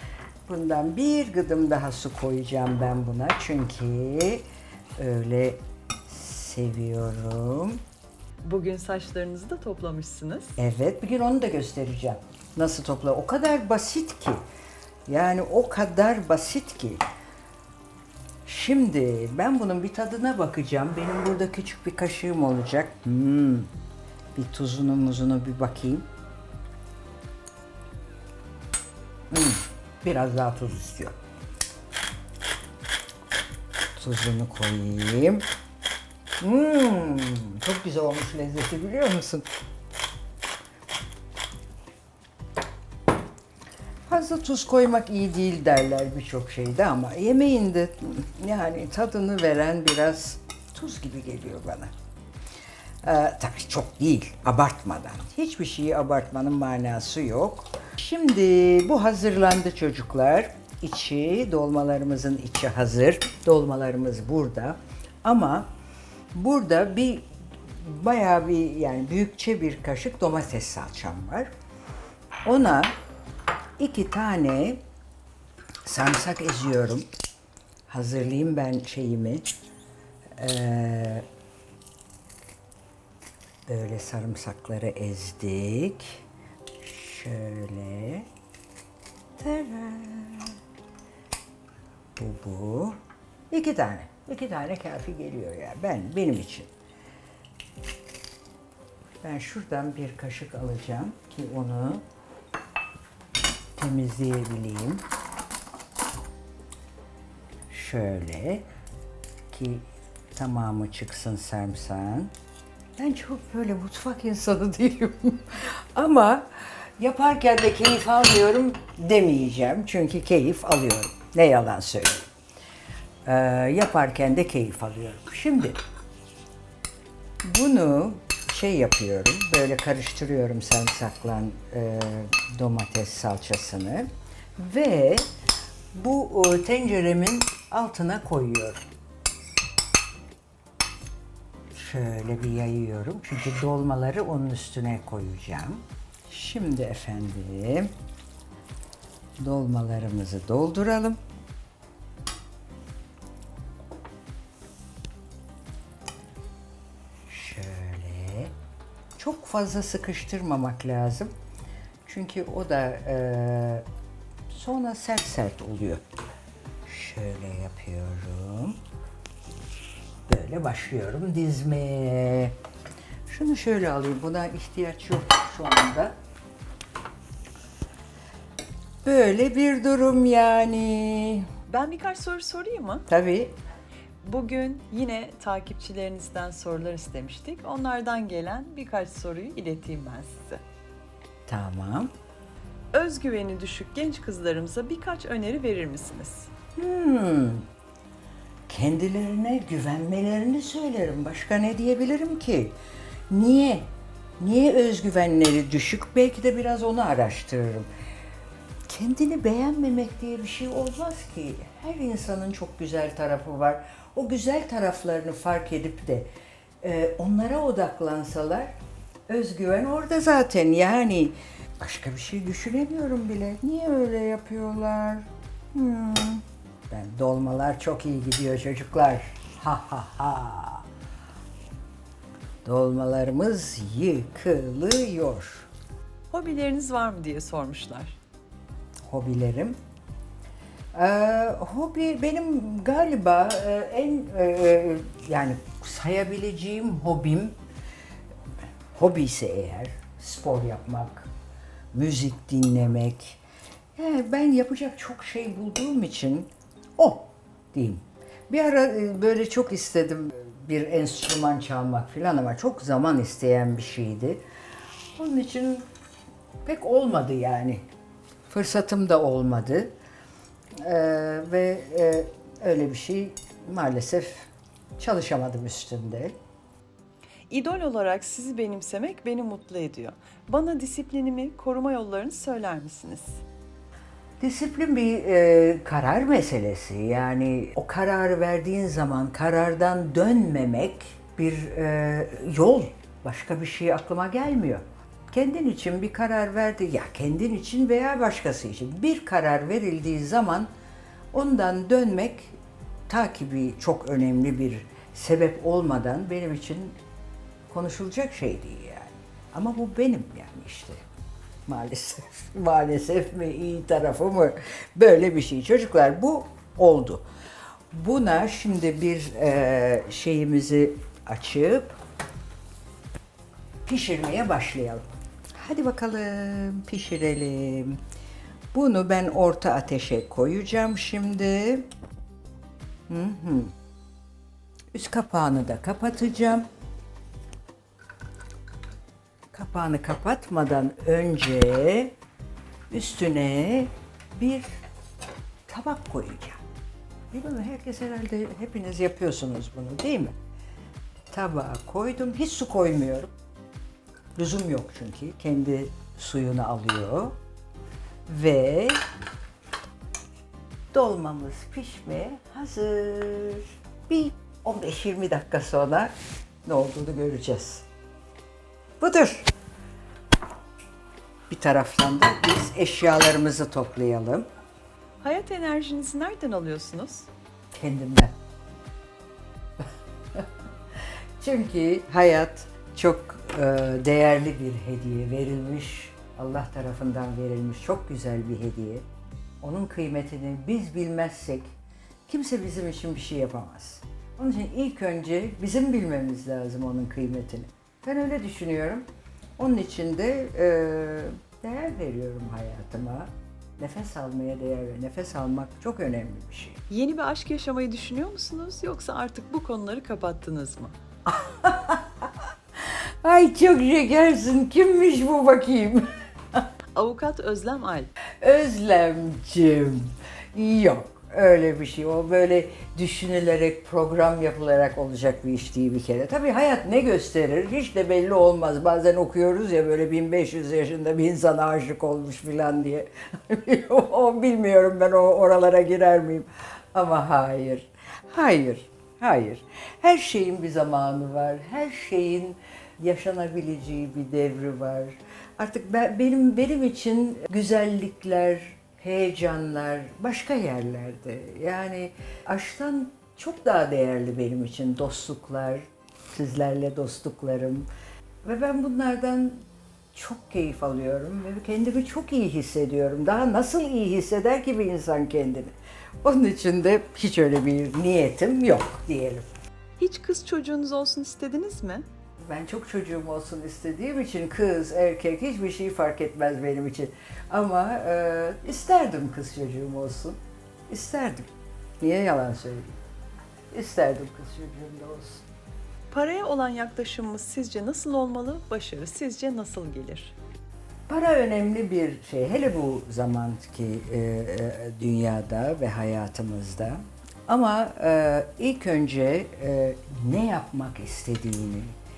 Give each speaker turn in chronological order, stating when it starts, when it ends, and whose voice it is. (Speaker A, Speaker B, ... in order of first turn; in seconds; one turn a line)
Speaker A: 0.5-4.4
Speaker A: 5.0-7.8
Speaker B: 8.4-10.6
Speaker A: 10.6-14.4
Speaker A: 15.1-17.0
Speaker A: 18.5-23.7
Speaker A: 24.4-26.1
Speaker A: 29.3-31.1
Speaker A: 34.0-35.4
Speaker A: 36.4-39.5
Speaker A: 44.1-51.9
Speaker A: 53.0-65.7
Speaker A: 66.3-67.3
Speaker A: 67.8-71.5
Speaker A: 72.5-72.9
Speaker A: 73.8-74.8
Speaker A: 75.9-77.1
Speaker A: 77.9-79.5
Speaker A: 80.4-81.2
Speaker A: 83.7-86.2
Speaker A: 86.8-88.3
Speaker A: 89.4-90.6
Speaker A: 92.2-93.0
Speaker A: 93.5-96.7
Speaker A: 99.2-102.0
Speaker A: 103.8-105.0
Speaker A: 107.7-108.7
Speaker A: 109.5-112.3
Speaker A: 113.0-122.3
Speaker A: 123.2-125.8
Speaker A: 127.4-135.2
Speaker A: 135.9-138.8
Speaker A: 141.7-147.9
Speaker A: 149.4-151.2
Speaker A: 157.3-158.5
Speaker A: 159.2-161.3
Speaker A: 162.1-163.8
Speaker A: 164.5-166.0
Speaker A: 166.9-168.8
Speaker A: 170.3-172.6
Speaker A: 173.3-176.1
Speaker A: 179.0-181.5
Speaker B: 181.7-183.1
Speaker A: 183.1-183.5
Speaker B: 184.2-190.6
Speaker A: 191.5-192.1
Speaker B: 192.9-196.5
Speaker A: 196.8-197.7
Speaker A: 198.7-202.8
Speaker A: 203.3-203.9
Speaker A: 204.4-207.9
Speaker A: 208.9-216.3
Speaker A: 216.8-218.7
Speaker A: 219.3-230.8
Speaker A: 232.6-235.7
Speaker B: 236.3-238.2
Speaker A: 239.1-239.8
Speaker A: 240.9-247.6
Speaker A: 248.9-251.3
Speaker A: 251.9-253.4
Speaker A: 254.0-264.4
Speaker A: 265.1-265.9
Speaker A: 266.6-267.8
Speaker A: 268.5-269.9
Speaker A: 270.8-274.5
Speaker A: 275.0-276.4
Speaker B: 277.5-283.4
Speaker A: 284.4-300.7
Speaker A: 301.3-302.6
Speaker A: 303.1-307.0
Speaker A: 307.7-311.0
Speaker A: 311.7-317.2
Speaker A: 317.9-322.0
Speaker A: 323.9-325.0
Speaker A: 325.6-328.0
Speaker A: 328.7-331.9
Speaker A: 333.1-333.7
Speaker A: 334.9-336.6
Speaker A: 339.5-342.1
Speaker A: 342.9-344.7
Speaker A: 345.7-346.6
Speaker A: 347.3-350.4
Speaker A: 351.3-353.3
Speaker A: 354.4-357.4
Speaker A: 358.3-359.0
Speaker A: 360.9-366.1
Speaker A: 366.6-367.9
Speaker A: 369.0-369.5
Speaker A: 371.5-374.5
Speaker B: 375.2-377.3
Speaker A: 377.7-378.4
Speaker A: 381.4-389.1
Speaker A: 389.6-391.7
Speaker A: 392.3-399.1
Speaker A: 399.6-406.8
Speaker B: 406.9-410.9
Speaker A: 411.2-412.3
Speaker A: 412.9-416.6
Speaker B: 416.9-418.1
Speaker A: 418.4-455.8
Speaker A: 456.3-457.9
Speaker A: 458.4-459.6
Speaker A: 460.1-469.5
Speaker B: 470.0-472.1
Speaker A: 472.5-480.4
Speaker A: 480.9-481.5
Speaker A: 482.0-483.0
Speaker A: 483.7-485.4
Speaker B: 486.1-490.4
Speaker A: 491.1-501.9